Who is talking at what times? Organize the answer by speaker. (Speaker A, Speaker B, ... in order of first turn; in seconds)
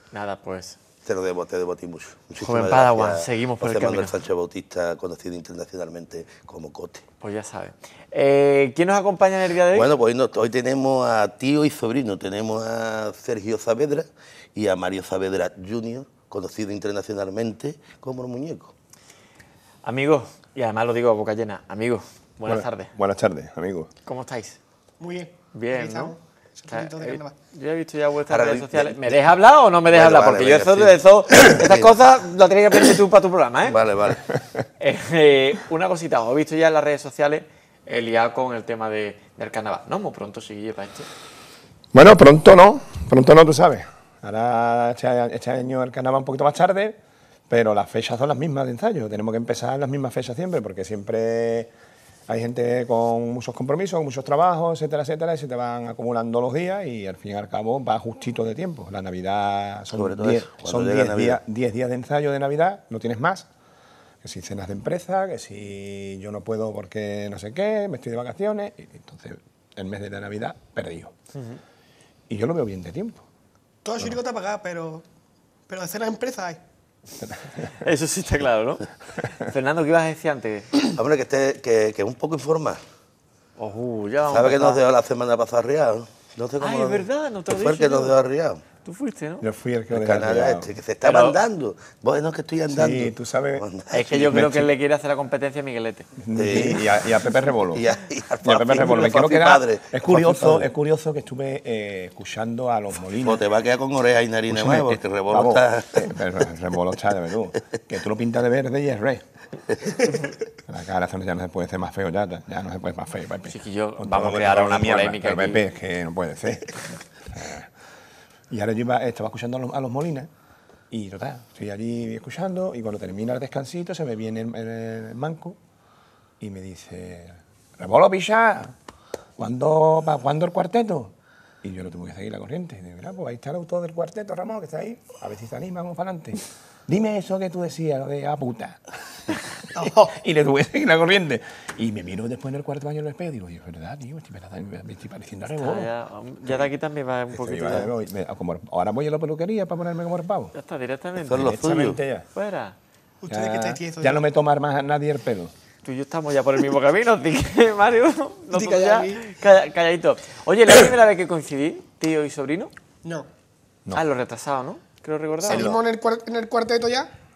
Speaker A: 0.1-0.8, 2.4-4.2, 7.2-9.9, 19.8-22.9, 24.1-24.6, 25.5-26.1, 26.7-33.8, 34.8-41.1, 71.3-71.6, 77.8-80.8, 83.6-84.8, 86.6-88.2, 88.8-89.4, 91.0-91.4, 93.9-96.1, 113.5-115.6, 145.6-147.9, 150.5-151.6, 152.3-152.7, 155.8-162.7, 163.9-165.8
Speaker B: 1.0-7.0, 9.7-18.7, 28.3-29.2, 29.9-31.9, 33.6-34.2, 59.9-61.4, 80.9-82.8, 84.3-88.6, 89.9-94.4, 96.3-96.8, 97.7-100.7, 103.2-106.1, 151.3-152.0
Speaker C: 22.5-23.9, 41.9-47.0, 47.5-51.7, 52.3-63.5, 64.2-71.1, 72.3-73.2, 89.4-90.7, 92.7-93.6, 94.3-94.7, 96.2-97.9, 98.4-103.5, 104.5-109.2, 110.7-116.8, 117.3-117.7, 118.5-120.3, 120.9-125.6, 126.4-128.7, 129.4-138.8, 139.7-145.9, 147.3-150.5, 151.3-152.2, 153.3-155.5, 165.5-165.8
Speaker D: 25.0-27.4, 73.8-75.0, 75.7-76.6, 139.8-140.1, 153.2-154.3, 158.5-159.2, 165.4-167.1